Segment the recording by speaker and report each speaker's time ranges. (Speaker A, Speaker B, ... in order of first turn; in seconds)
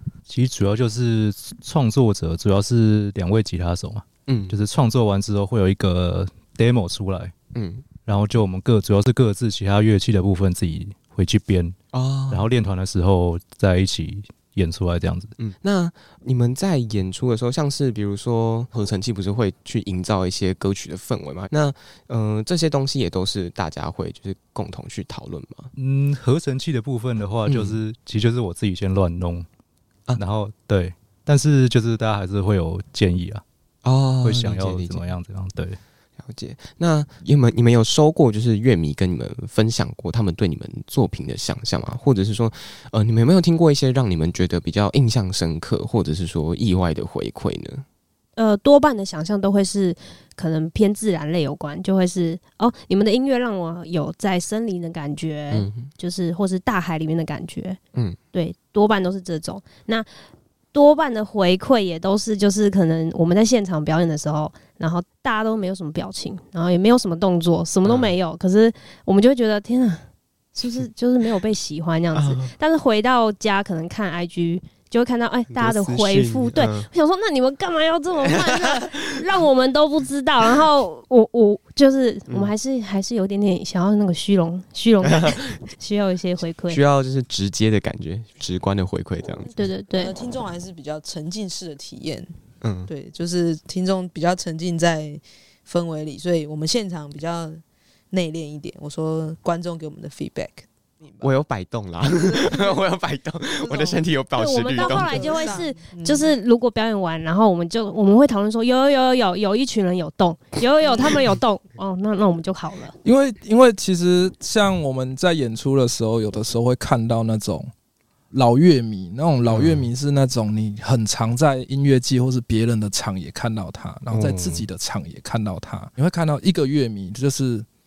Speaker A: 0.3-7.3, 8.1-11.8, 12.3-15.3, 25.8-29.5, 30.1-33.4, 34.2-35.8
Speaker B: 4.3-4.6, 7.5-7.9, 11.9-12.5, 15.4-25.7, 27.5-27.8, 33.8-35.1, 36.2-47.8, 55.5-55.9, 67.8-68.1, 72.2-72.5, 75.5-76.9, 85.0-85.5, 86.7-89.5, 92.6-92.9, 101.2-105.5, 119.5-119.9, 124.1-124.7
Speaker C: 48.4-57.8, 58.3-60.1, 60.7-86.8, 89.5-90.2, 104.4-112.9
Speaker D: 89.9-92.3, 92.9-101.3, 102.2-102.8, 103.6-104.0, 104.7-106.3, 110.8-111.1
Speaker E: 113.0-117.7, 118.3-127.7